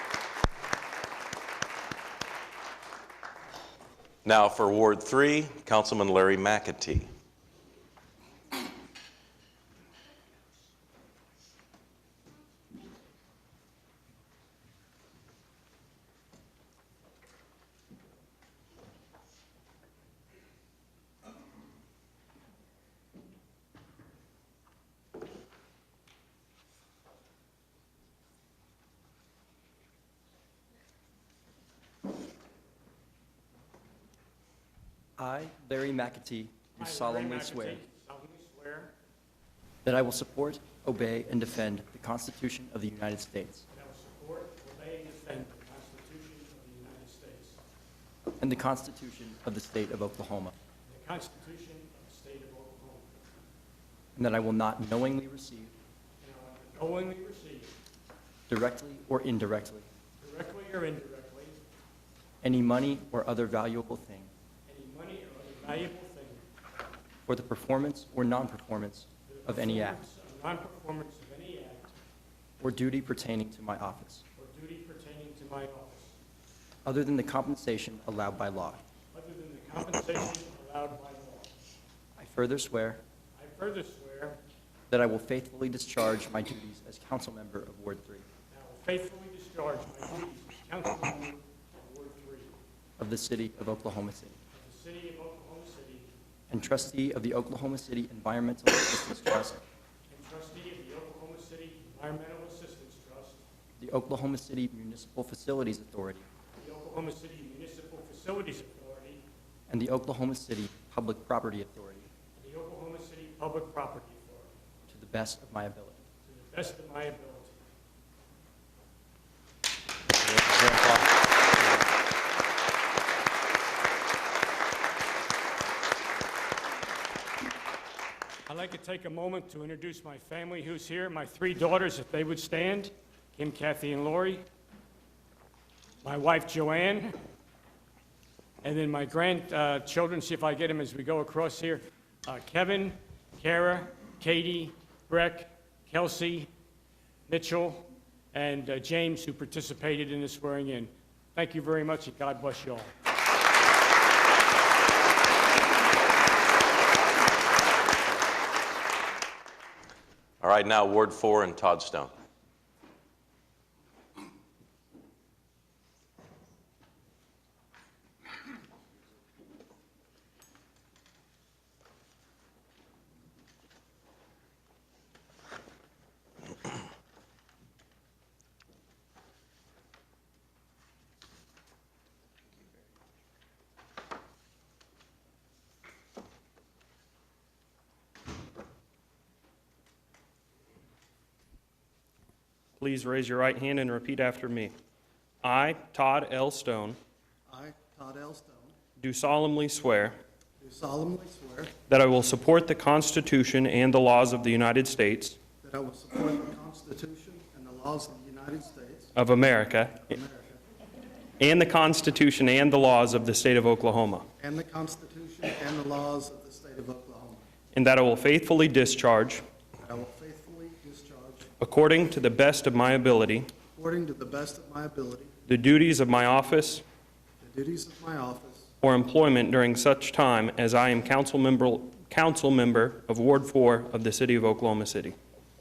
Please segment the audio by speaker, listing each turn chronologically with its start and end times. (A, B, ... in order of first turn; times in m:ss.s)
0:04.2-0:07.1 A
0:35.2-0:37.8 B
0:36.8-0:38.9 C
0:39.8-0:43.6 B
0:43.7-0:47.6 C
0:48.4-0:50.5 B
0:50.8-0:53.1 C
0:54.2-0:55.7 B
0:56.2-0:57.7 C
0:58.5-0:59.9 B
1:00.2-1:01.6 C
1:02.4-1:04.3 B
1:04.6-1:06.4 C
1:07.2-1:10.0 B
1:09.3-1:12.0 C
1:12.6-1:14.2 B
1:14.4-1:16.2 C
1:16.8-1:18.8 B
1:19.1-1:21.5 C
1:22.2-1:23.0 B
1:23.3-1:24.4 C
1:24.9-1:28.2 B
1:28.5-1:32.5 C
1:33.0-1:34.4 B
1:34.5-1:36.1 C
1:36.5-1:39.6 B
1:40.1-1:43.4 C
1:43.8-1:46.2 B
1:46.6-1:49.2 C
1:49.7-1:52.1 B
1:52.4-1:54.5 C
1:54.9-1:56.0 B
1:56.2-1:57.6 C
2:00.4-2:01.0 B
2:08.5-2:14.4 C
2:16.0-2:17.2 C
2:18.6-2:26.5 C
2:27.3-2:32.9 C
2:40.4-2:42.1 A
3:12.8-3:14.7 D
3:15.4-3:17.0 D
3:17.5-3:18.7 E
3:19.0-3:20.2 D
3:20.6-3:21.8 E
3:21.9-3:25.4 D
3:25.6-3:29.1 E
3:29.2-3:30.0 D
3:29.9-3:30.6 E
3:31.4-3:34.3 D
3:34.4-3:37.4 E
3:37.7-3:39.4 D
3:39.8-3:41.5 E
3:41.6-3:43.5 D
3:43.7-3:45.3 E
3:45.5-3:46.8 D
3:47.4-3:48.7 E
3:48.8-3:55.2 D